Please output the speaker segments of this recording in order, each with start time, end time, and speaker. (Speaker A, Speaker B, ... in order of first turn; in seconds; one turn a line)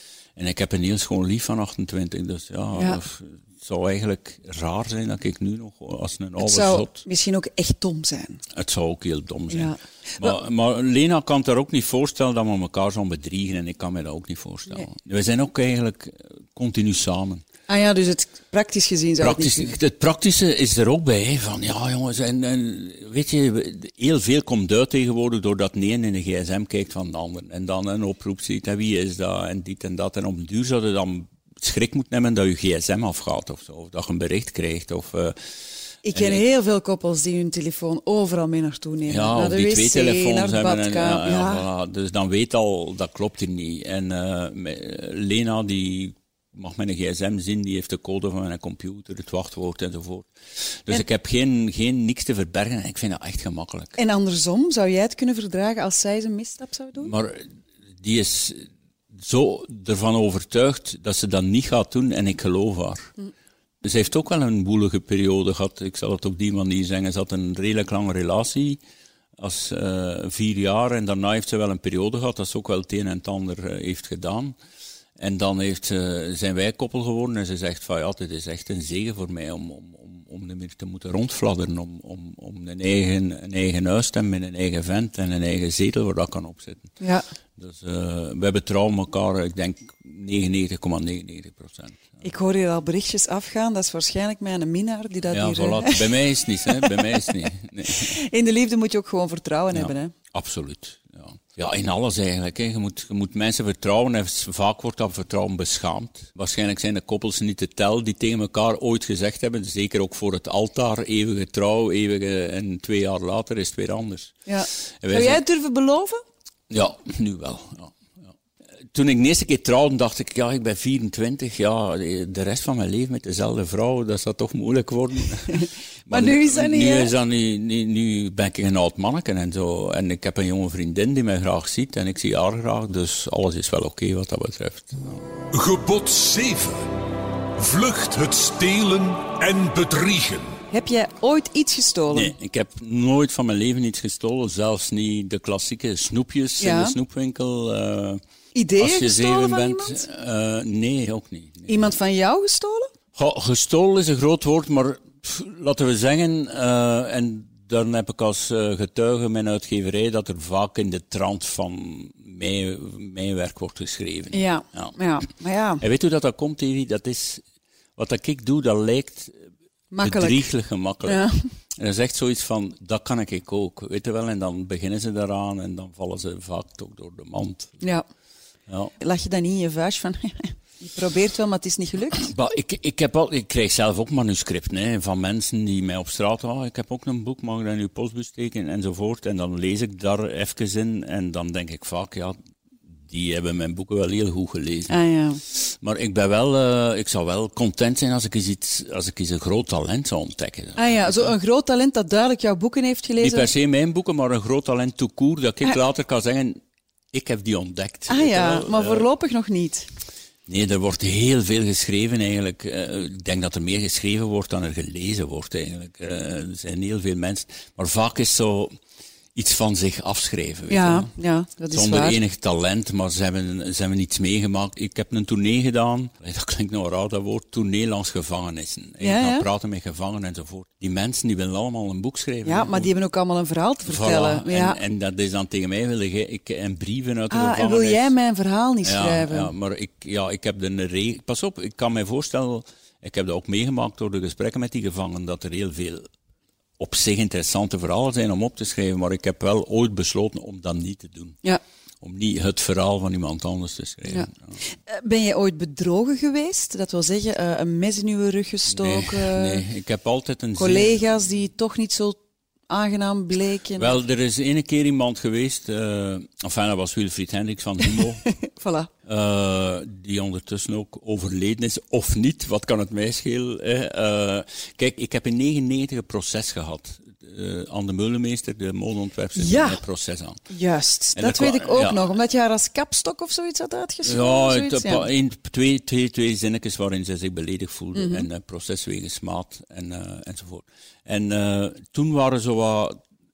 Speaker A: 0.4-7.0
Speaker B: 2.7-3.0
Speaker B: 6.4-8.4
Speaker A: 8.5-17.4
Speaker B: 9.5-10.4
Speaker B: 17.7-19.7
Speaker A: 19.2-35.4
Speaker B: 36.0-41.6
Speaker A: 36.1-36.4
Speaker A: 39.1-50.3
Speaker A: 50.9-54.0
Speaker B: 54.0-57.1
Speaker A: 57.0-63.1
Speaker A: 63.8-68.8
Speaker A: 69.4-74.6
Speaker A: 75.2-86.9
Speaker A: 87.6-92.1
Speaker B: 92.2-97.3
Speaker A: 95.3-98.2
Speaker B: 97.8-100.1
Speaker A: 99.7-114.4
Speaker B: 114.5-116.2
Speaker A: 115.0-115.4
Speaker A: 116.7-118.3
Speaker A: 118.9-135.3
Speaker B: 125.5-127.1
Speaker C: 135.5-136.9
Speaker C: 137.6-140.6
Speaker B: 140.7-142.3
Speaker A: 142.1-148.2
Speaker B: 146.6-146.9
Speaker B: 148.6-150.0
Speaker A: 148.8-151.9
Speaker B: 151.7-152.9
Speaker A: 153.2-164.9
Speaker B: 164.3-165.8
Speaker A: 165.8-167.4
Speaker A: 168.0-169.4
Speaker B: 169.9-170.5
Speaker A: 170.0-177.8
Speaker B: 171.0-171.4
Speaker A: 178.7-178.9
Speaker B: 179.0-182.3
Speaker A: 182.2-192.4
Speaker A: 193.0-201.3
Speaker B: 194.9-195.4
Speaker B: 200.8-203.5
Speaker A: 203.2-206.6
Speaker A: 207.1-209.1
Speaker B: 208.1-209.9
Speaker A: 210.5-218.8
Speaker A: 219.3-221.1
Speaker B: 220.7-222.2
Speaker A: 221.7-232.9
Speaker B: 229.0-229.5
Speaker B: 232.4-234.8
Speaker A: 233.9-238.1
Speaker B: 237.3-239.5
Speaker A: 238.8-246.1
Speaker A: 246.8-251.4
Speaker A: 252.0-254.6
Speaker B: 254.1-259.6
Speaker A: 258.7-261.0
Speaker B: 260.6-264.0
Speaker A: 263.8-268.2
Speaker B: 268.0-268.9
Speaker A: 269.1-280.4
Speaker B: 279.4-279.8
Speaker B: 280.5-285.1
Speaker A: 281.1-282.1
Speaker A: 284.0-293.0
Speaker B: 287.9-288.3